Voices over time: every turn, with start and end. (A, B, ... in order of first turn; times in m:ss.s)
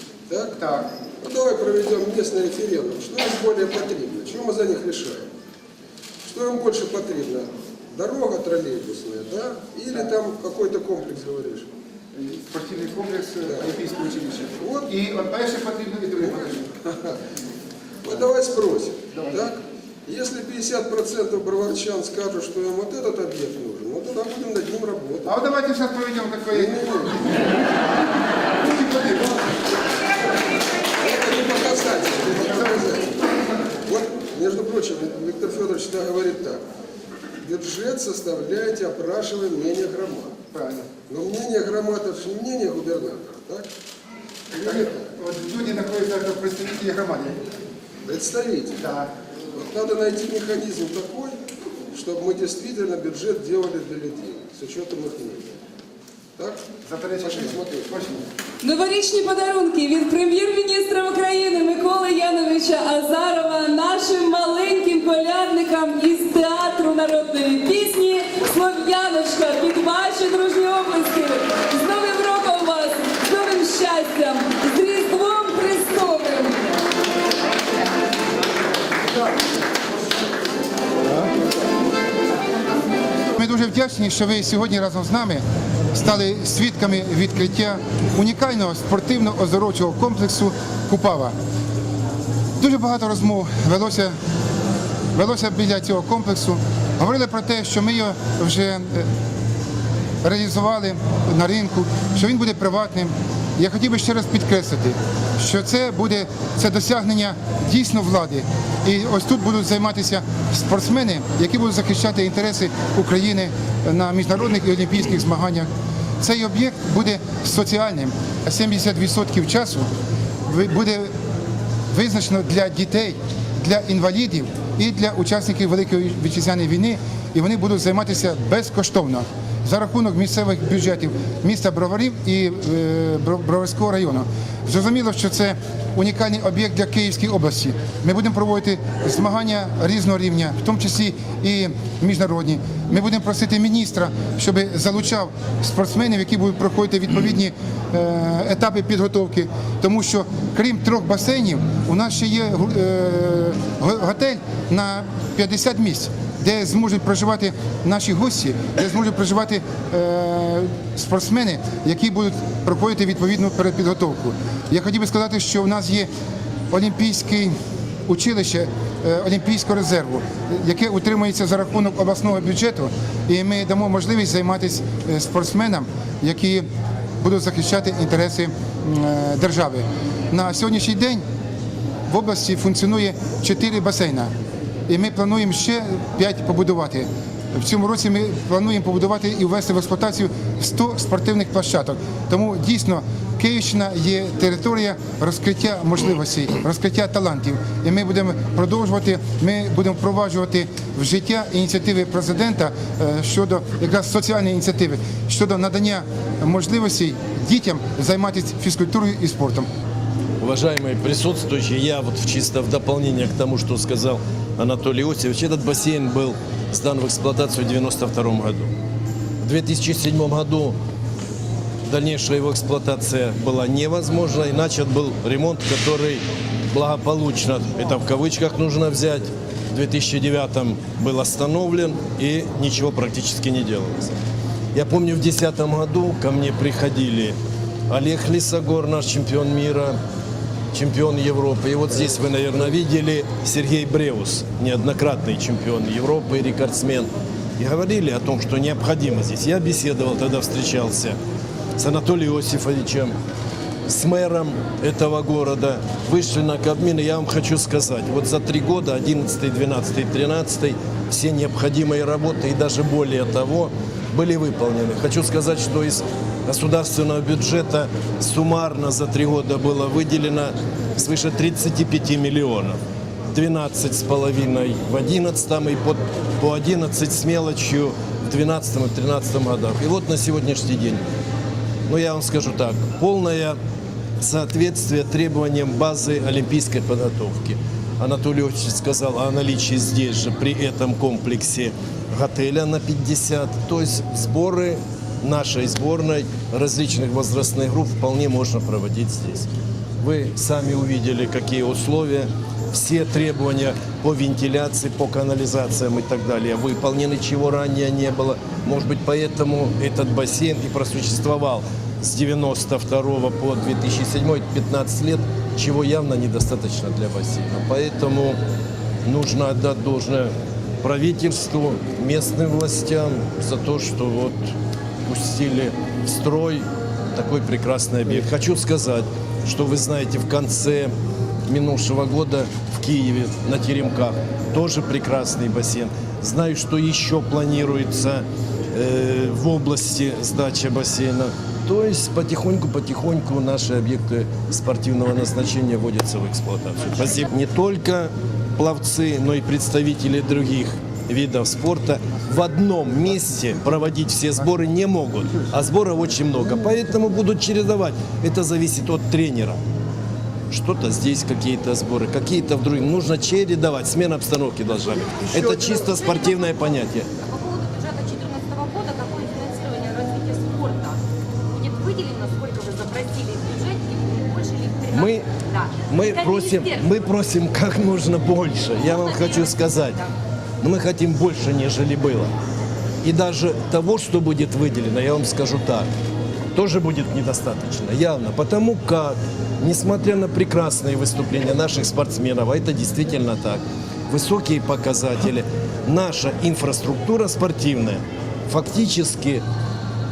0:00.3-0:00.6 A
0:00.6-0:00.9 B
0:01.2-0:05.3 A
0:06.2-0:11.7 A
0:12.1-0:16.7 B
0:13.4-0:13.7 A
0:14.6-0:14.9 A
0:16.2-0:17.2 A
0:18.0-0:25.3 A
0:25.3-0:27.4 B
0:26.5-0:27.4 A
0:28.6-0:29.5 B
0:31.0-0:33.2 A
0:32.3-0:33.1 B
0:33.8-0:36.6 A
0:37.4-0:40.4 A
0:40.5-0:40.9 B
0:41.1-0:43.7 A
0:44.5-0:45.1 A
0:44.6-0:47.4 B
0:48.1-0:48.8 A
0:48.8-0:49.1 B
0:49.5-0:51.4 A
0:51.9-0:55.6 A
0:56.4-0:56.6 A
0:56.8-0:58.3 B
0:57.2-0:58.0 A
0:58.6-1:16.9 C
1:21.0-1:21.3 B
1:23.3-1:31.4 B
1:32.6-1:34.2 B
1:35.1-1:39.1 B
1:40.2-1:55.7 B
1:56.2-1:59.9 B
2:00.4-2:01.1 B
2:01.9-2:46.1 B
2:46.7-2:47.6 B
2:48.1-2:56.7 B
2:57.2-3:01.2 B
3:02.1-3:04.3 B
3:04.9-3:29.7 B
3:30.4-3:38.7 D
3:39.4-3:40.8 D
3:41.9-3:54.1 D
3:54.7-3:57.4 D
3:57.9-4:00.0 D
4:00.7-4:11.2 D
4:11.8-4:13.2 D
4:13.9-4:41.1 D
4:41.9-4:43.6 D
4:44.2-4:59.5 D
5:00.0-5:18.4 D
5:19.0-5:24.5 D
5:25.0-5:30.9 D
5:31.5-5:59.6 D
6:00.5-6:07.1 D
6:05.3-6:17.1 E
6:14.9-6:15.3 D
6:15.9-6:20.0 D
6:18.8-6:20.1 E
6:20.6-6:22.3 D
6:23.0-6:25.9 D
6:26.5-6:39.4 D